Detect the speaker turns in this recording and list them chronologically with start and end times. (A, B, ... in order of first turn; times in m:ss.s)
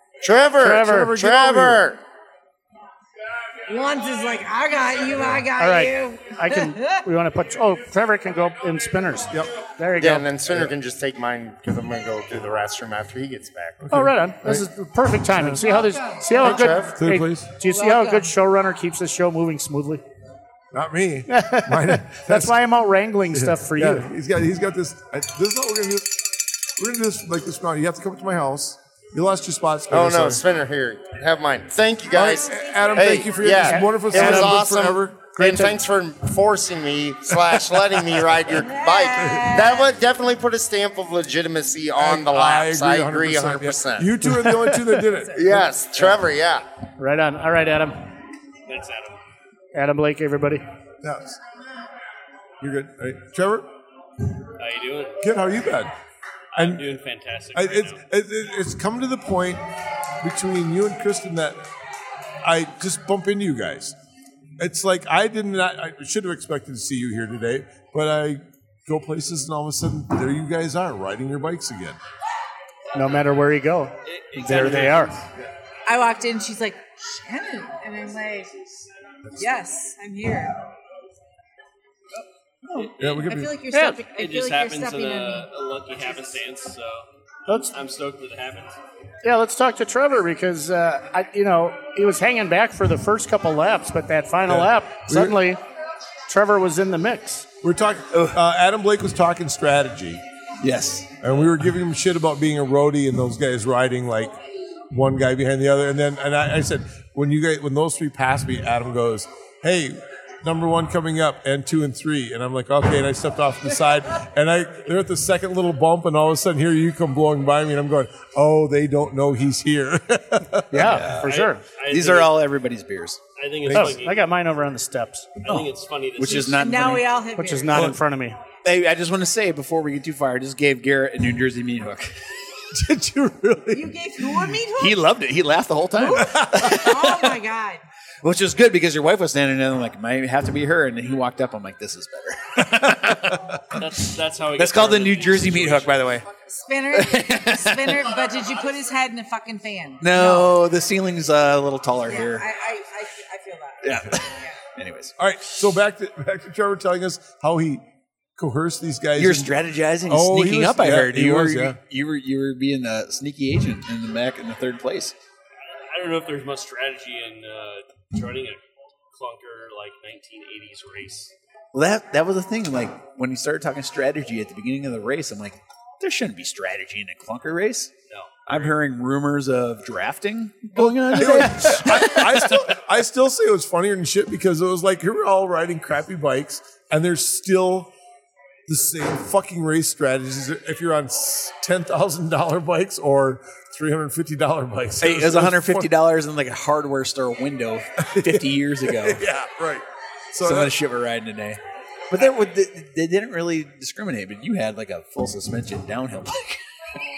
0:00.2-0:02.0 A
0:00.6-0:01.2 B
0:00.7-0:01.9 C
0:03.7-0:07.0 D
0:05.2-0:05.4 C
0:05.6-0:10.3 B
0:10.0-0:13.8 A
0:10.5-0:10.7 C
0:13.8-0:14.7 C
0:13.9-0:20.0 B
0:15.6-0:16.5 D
0:16.4-0:17.0 A
0:16.9-0:17.5 C
0:17.7-0:18.4 D
0:20.7-0:22.7 C
0:21.3-0:24.1 B
0:23.3-0:26.1 C
0:26.8-0:30.4 C
0:29.9-0:44.2 A
0:32.1-0:35.4 C
0:33.5-0:34.8 B
0:35.4-0:35.8 B
0:38.6-0:39.9 D
0:42.0-0:46.0 C
0:44.3-0:45.0 B
0:45.4-0:46.6 A
0:47.0-0:48.1 B
0:48.7-0:49.2 E
0:49.7-0:50.6 B
0:51.0-0:51.4 C
0:52.6-0:53.7 C
0:54.6-0:55.2 E
0:55.2-0:55.9 C
0:56.5-0:58.0 E
0:56.6-0:57.0 C
0:57.5-0:59.6 C
1:00.2-1:01.6 C
1:02.4-1:04.0 C
1:04.6-1:12.0 C
1:13.0-1:15.1 B
1:14.0-1:15.1 E
1:14.4-1:15.0 F
1:15.9-1:18.5 D
1:19.4-1:20.6 D
1:22.8-1:23.3 E
1:23.0-1:23.6 C
1:23.2-1:25.5 D
1:23.7-1:24.0 B
1:24.1-1:27.1 E
1:27.5-1:27.7 B
1:27.7-1:28.8 E
1:29.2-1:35.6 B
1:34.5-1:35.4 C
1:36.3-1:37.5 B
1:37.6-1:40.2 C
1:38.1-1:38.4 F
1:40.6-1:41.1 F
1:41.2-1:44.4 C
1:44.9-2:01.0 C
2:00.7-2:03.2 F
2:00.7-2:01.6 B
2:01.2-2:02.4 E
2:03.4-2:04.3 E
2:03.7-2:03.9 C
2:03.7-2:05.4 B
2:05.4-2:06.8 E
2:05.5-2:07.1 F
2:06.5-2:07.9 D
2:07.4-2:08.4 B
2:08.6-2:12.1 F
2:12.7-2:14.4 C
2:13.7-2:15.0 D
2:14.8-2:17.4 F
2:16.0-2:17.8 D
2:16.2-2:16.7 C
2:18.2-2:23.9 F
2:23.7-2:26.2 E
2:24.6-2:26.2 F
2:26.5-2:30.5 D
2:26.9-2:28.1 F
2:30.0-2:32.5 F
2:32.1-2:34.6 D
2:33.8-2:35.1 F
2:35.2-2:37.8 C
2:38.4-2:41.8 C
2:39.2-2:45.1 F
2:45.9-2:51.3 E
2:51.7-2:57.9 F
2:58.1-2:58.8 E
2:58.5-3:02.6 F
3:00.8-3:07.9 C
3:08.7-3:15.9 C
3:15.0-3:19.2 F
3:18.1-3:20.7 C
3:20.4-3:21.6 F
3:22.1-3:26.6 F